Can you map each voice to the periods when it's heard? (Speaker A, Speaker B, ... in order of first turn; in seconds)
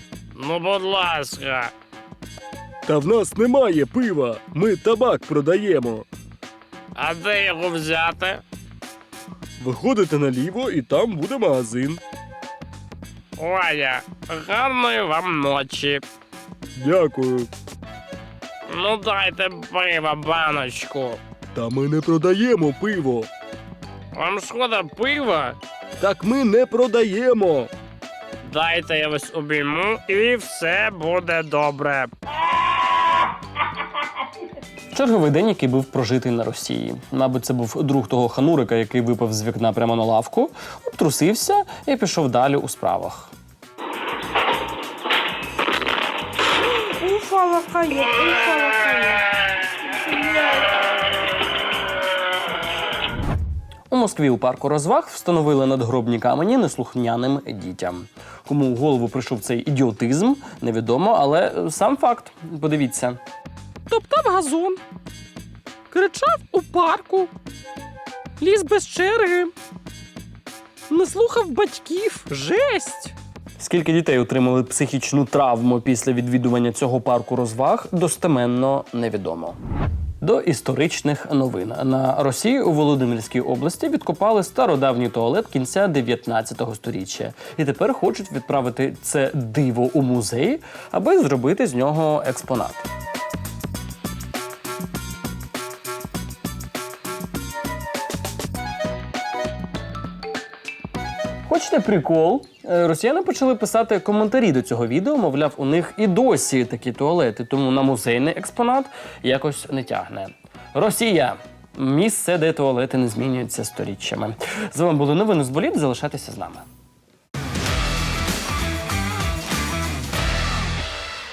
Speaker A: 0.4-1.7, 7.0-8.4, 13.4-16.0, 18.7-21.2, 24.2-25.6, 28.5-32.1, 46.8-49.2, 49.8-50.6, 63.9-64.8, 65.9-67.3, 68.4-69.5, 70.9-73.1
Speaker B: 2.9-6.1, 9.6-12.0, 16.8-17.5, 21.6-23.3, 26.0-27.7
Speaker C: 34.9-43.3, 53.9-63.2, 73.6-79.6, 80.2-92.9, 101.5-116.6